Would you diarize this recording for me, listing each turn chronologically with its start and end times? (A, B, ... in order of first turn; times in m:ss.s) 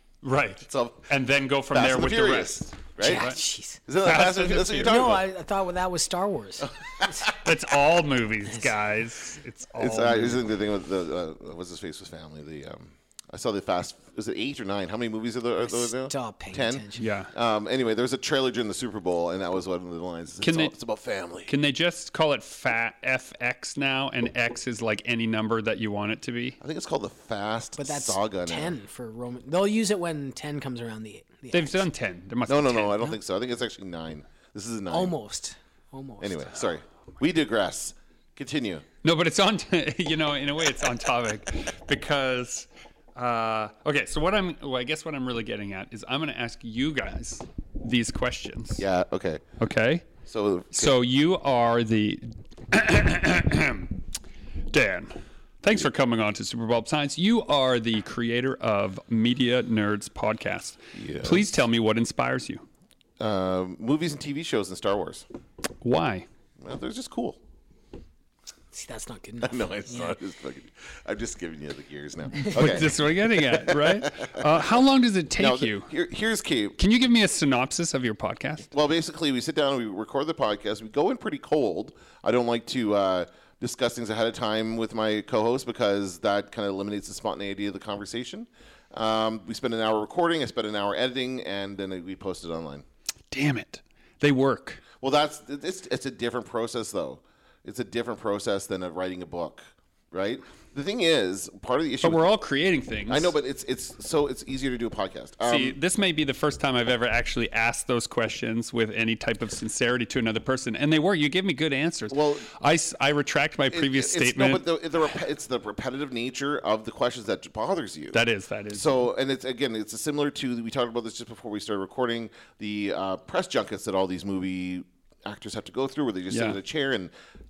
0:00.2-0:03.4 A
0:00.6-0:01.1 B
0:01.7-0:03.3 B
0:03.0-0:03.8 C
0:03.9-0:05.3 B
0:04.0-0:05.0 A
0:04.8-0:07.3 C
0:07.0-0:07.3 B
0:07.4-0:10.4 A
0:09.8-0:21.5 B
0:15.6-0:17.0 C
0:17.0-0:17.3 A
0:20.4-0:20.7 A
0:21.5-0:26.6 A
0:26.6-0:28.8 B
0:27.8-0:31.8 C
0:31.5-0:33.2 A
0:32.5-0:35.2 B
0:34.9-0:36.5 C
0:36.2-0:38.8 B
0:39.0-0:48.8 A
0:48.8-0:49.4 B
0:49.6-0:50.1 A
0:50.3-0:51.0 B
0:50.7-0:54.0 A
0:54.7-1:02.6 A
1:01.0-1:01.5 B
1:03.2-1:05.3 B
1:05.8-1:06.3 A
1:06.6-1:07.4 B
1:08.7-1:10.1 C
1:09.4-1:14.6 B
1:12.5-1:15.9 A
1:15.4-1:16.8 B
1:16.8-1:18.7 A
1:18.7-1:32.8 B
1:33.3-1:34.8 A
1:35.0-1:42.2 B
1:42.0-1:43.3 A
1:43.1-1:45.8 B
1:45.4-1:54.6 A
1:52.1-1:52.4 B
1:53.7-1:58.2 B
1:58.1-1:59.0 A
1:58.7-2:07.1 B
2:06.3-2:06.6 A